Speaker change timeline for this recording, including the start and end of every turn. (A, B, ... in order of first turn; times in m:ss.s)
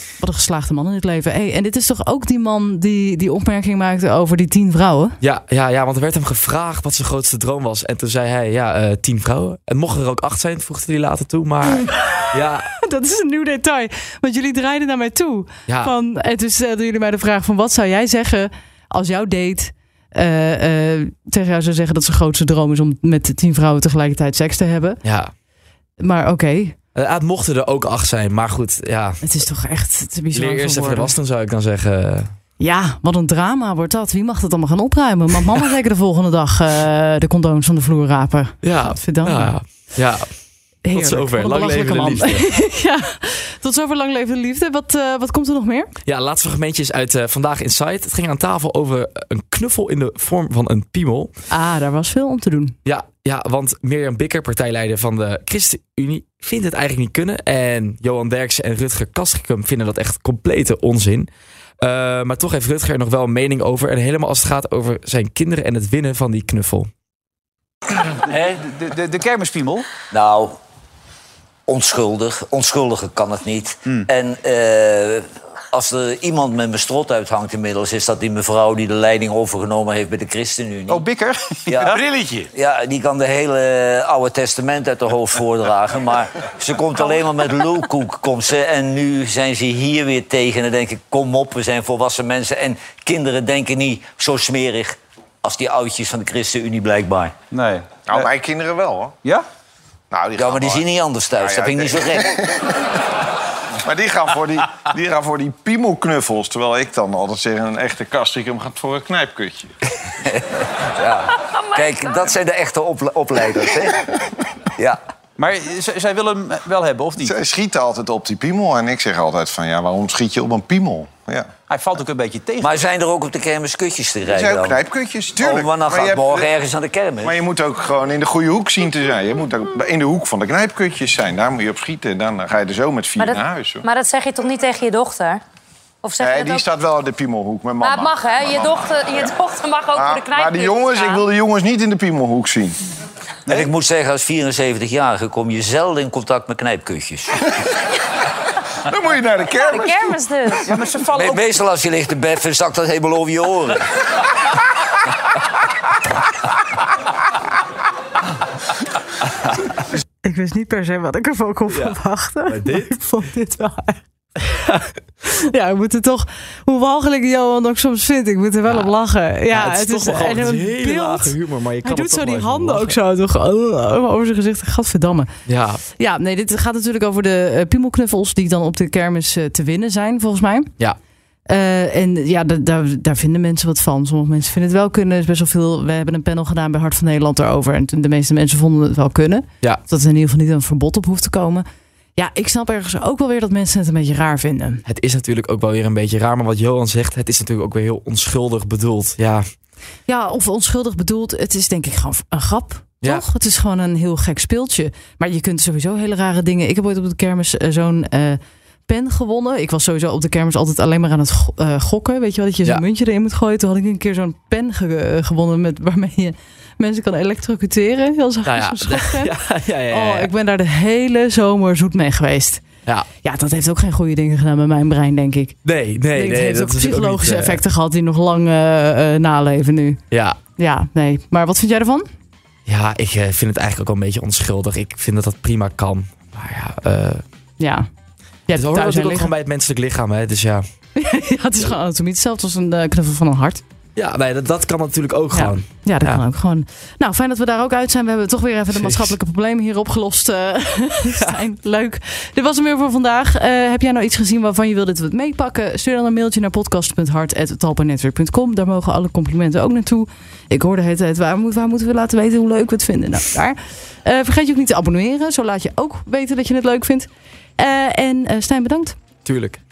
0:00.2-0:05.2 A
0:05.2-0:12.7 B
0:12.8-0:25.0 A
0:15.7-0:15.9 B
0:25.0-0:25.3 B
0:26.0-0:26.7 A
0:26.9-0:29.2 B
0:29.2-0:31.1 A
0:30.3-0:32.3 B
0:32.6-0:39.5 A
0:38.6-0:40.3 B
0:40.8-0:45.9 A
0:40.9-0:42.5 B
0:46.0-0:51.3 B
0:51.5-0:52.8 A
0:52.8-1:01.3 B
1:01.8-1:06.9 B
1:08.3-1:09.8 C
1:10.1-1:10.6 D
1:11.7-1:21.1 D
1:20.9-1:22.3 C
1:21.6-1:22.0 D
1:22.5-1:37.3 D
1:37.5-1:37.8 C
1:38.1-1:39.1 E
1:40.1-1:42.4 E
1:40.3-1:42.3 D
1:43.8-1:49.7 E
1:50.9-1:54.0 D
1:55.4-1:57.3 C
1:57.2-2:01.5 E
2:01.7-2:02.7 C
2:02.6-2:04.8 D
2:04.2-2:06.6 E
2:05.4-2:07.4 D
2:07.2-2:13.8 E
2:13.2-2:15.4 F
2:16.0-2:16.6 F
2:16.2-2:19.3 E
2:17.8-2:21.2 F
2:19.9-2:22.8 E
2:23.5-2:27.4 D
2:28.9-2:30.9 E
2:29.6-2:30.6 F
2:30.9-2:31.4 C
2:31.1-2:33.8 D
2:40.2-2:44.6 A
2:41.7-2:42.0 B
2:42.5-2:42.9 B
2:45.2-2:55.3 A
2:48.7-2:48.9 B
2:49.5-2:53.0 B
2:55.4-2:55.8 B
2:56.0-3:00.7 A
3:01.5-3:11.6 A
3:12.2-3:14.8 A
3:14.8-3:19.4 B
3:20.1-3:39.3 A
3:38.4-3:40.3 B
3:39.9-3:42.6 A
3:43.2-3:45.5 A
3:45.6-3:47.6 B
3:46.1-3:50.0 A
3:50.1-3:50.4 B
3:50.6-3:52.1 A
3:52.7-3:57.2 B
3:57.6-3:57.8 A
3:58.5-3:59.3 A
3:58.5-4:00.6 B
4:01.0-4:03.6 A
4:04.0-4:06.2 B
4:05.3-4:29.0 A
4:08.7-4:09.1 B
4:29.2-4:29.6 B